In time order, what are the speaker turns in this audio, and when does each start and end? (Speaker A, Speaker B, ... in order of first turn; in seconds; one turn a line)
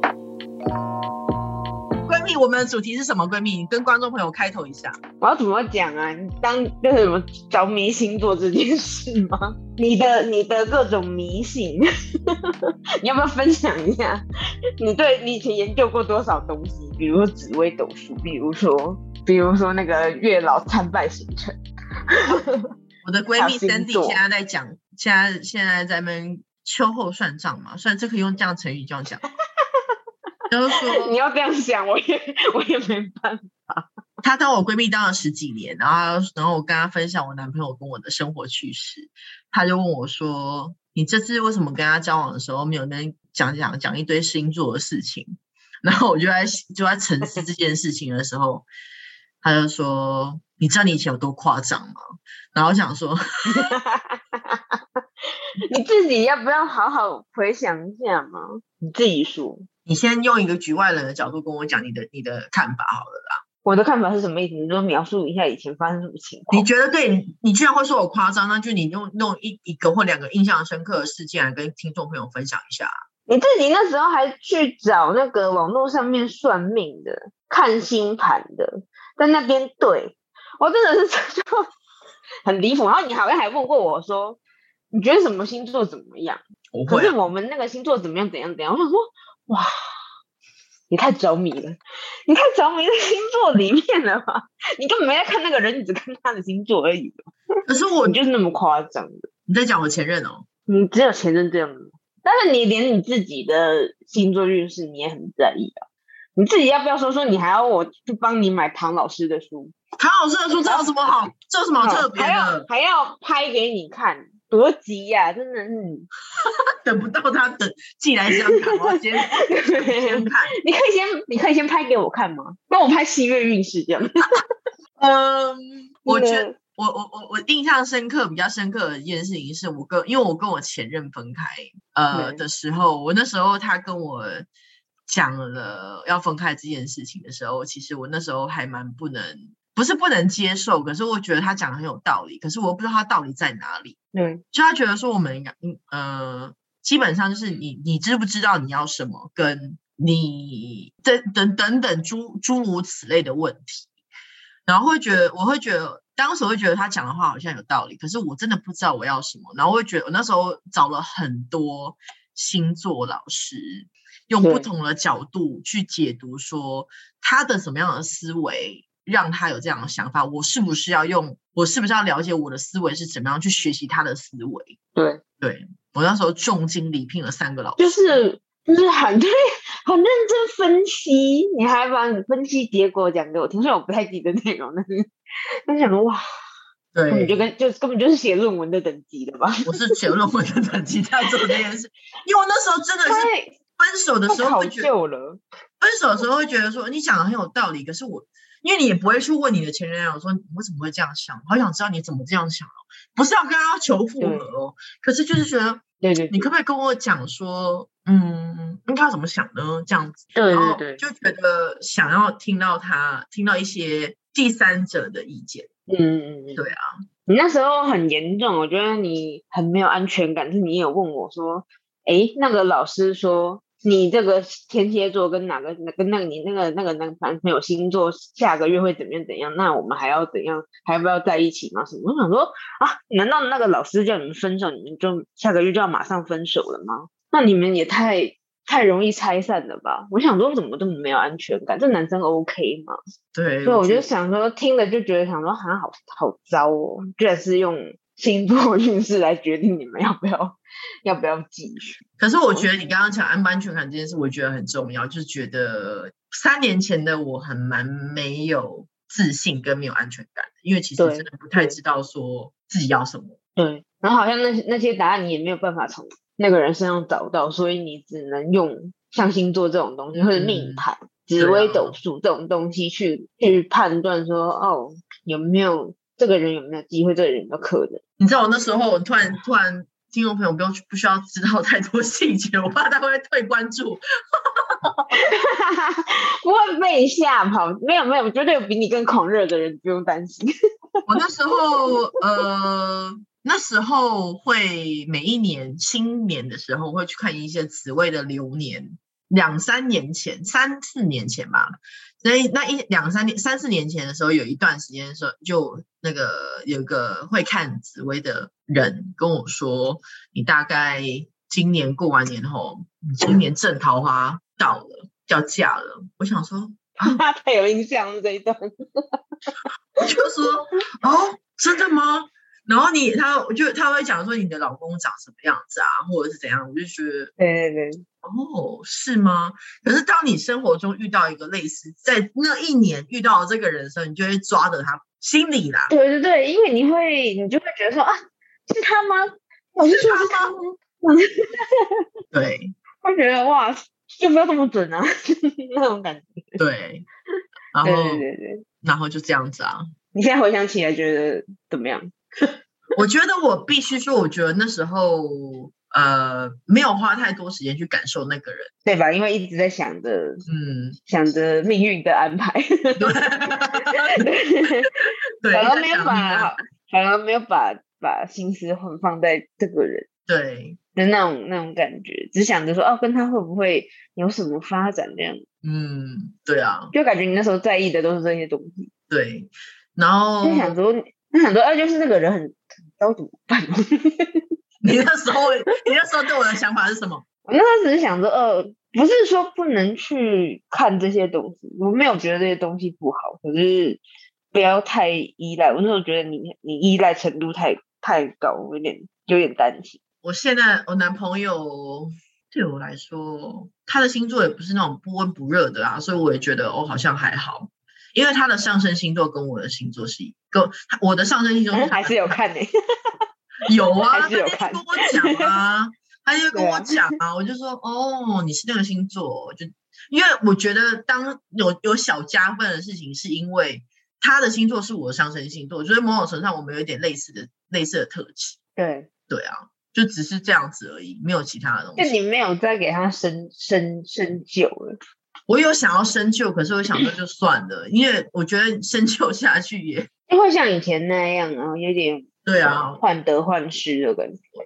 Speaker A: 2.0-4.9
Speaker B: 5.2-14.2
Speaker B: 14.8-21.6
Speaker B: 22.1-22.7
Speaker A: 23.0-29.2
Speaker B: 23.4-24.2
Speaker B: 29.6-29.9
Speaker A: 30.5-31.1
Speaker B: 30.9-33.9
Speaker A: 34.2-48.7
Speaker A: 49.4-52.0
Speaker A: 52.5-53.7
Speaker B: 53.5-54.8
Speaker B: 55.7-59.7
Speaker A: 59.9-63.4
Speaker B: 63.6-66.7
Speaker A: 66.5-72.9
Speaker B: 73.3-81.7
Speaker B: 82.4-84.4
Speaker B: 84.9-89.7
Speaker A: 86.7-87.2
Speaker B: 90.9-97.3
Speaker A: 97.7-98.2
Speaker B: 98.0-99.3
Speaker A: 99.5-100.5
Speaker B: 100.7-105.8
Speaker B: 106.4-109.7
Speaker A: 110.0-112.7
Speaker B: 110.7-110.9
Speaker B: 111.8-116.1
Speaker A: 116.5-120.5
Speaker B: 118.3-124.5
Speaker A: 125.0-134.5
Speaker B: 126.0-126.6
Speaker B: 132.1-132.4
Speaker A: 135.1-144.0
Speaker B: 144.1-144.4
Speaker A: 144.5-153.9
Speaker A: 154.7-174.8
Speaker B: 164.4-164.7
Speaker B: 175.0-175.2
Speaker A: 175.4-178.2
Speaker B: 177.8-185.1
Speaker B: 185.7-186.2
Speaker A: 186.9-187.5
Speaker B: 187.1-189.8
Speaker A: 189.7-194.9
Speaker B: 193.1-193.6
Speaker B: 194.3-195.4
Speaker A: 195.8-215.7
Speaker B: 204.2-204.5
Speaker B: 206.0-206.4
Speaker B: 210.3-211.0
Speaker B: 215.9-216.6
Speaker A: 216.6-216.8
Speaker B: 217.3-242.9
Speaker A: 243.3-244.1
Speaker B: 243.7-252.0
Speaker A: 252.2-263.4
Speaker B: 261.0-261.8
Speaker B: 263.6-278.0
Speaker A: 270.1-270.9
Speaker A: 271.4-272.0
Speaker A: 278.2-284.0
Speaker A: 284.8-285.1
Speaker B: 285.1-290.5
Speaker A: 291.1-317.2
Speaker B: 317.0-319.2
Speaker A: 320.0-327.3
Speaker B: 327.4-328.0
Speaker A: 328.2-335.9
Speaker B: 335.9-338.1
Speaker B: 338.7-340.4
Speaker A: 339.8-340.7
Speaker B: 341.0-342.1
Speaker A: 342.3-342.7
Speaker B: 343.0-346.6
Speaker A: 346.6-347.1
Speaker A: 347.7-348.2
Speaker B: 347.8-348.6
Speaker A: 348.8-349.9
Speaker B: 350.1-352.6
Speaker A: 352.9-358.7
Speaker B: 358.8-360.4
Speaker A: 360.5-361.0
Speaker B: 361.1-363.2
Speaker A: 363.0-364.2
Speaker B: 363.8-364.9
Speaker A: 365.4-366.5
Speaker B: 365.5-370.1
Speaker A: 370.3-370.8
Speaker B: 370.9-375.4
Speaker A: 375.6-376.9
Speaker B: 376.9-378.9
Speaker A: 379.1-380.8
Speaker B: 380.4-384.5
Speaker A: 384.8-387.2
Speaker B: 387.4-394.0
Speaker B: 394.5-400.0
Speaker A: 400.2-412.4
Speaker B: 411.7-413.2
Speaker A: 413.6-428.6
Speaker B: 414.1-415.5
Speaker B: 416.5-417.0
Speaker B: 428.8-429.1
Speaker A: 429.3-432.1
Speaker B: 432.0-435.0
Speaker A: 435.5-440.1
Speaker B: 440.3-444.4
Speaker A: 442.4-443.0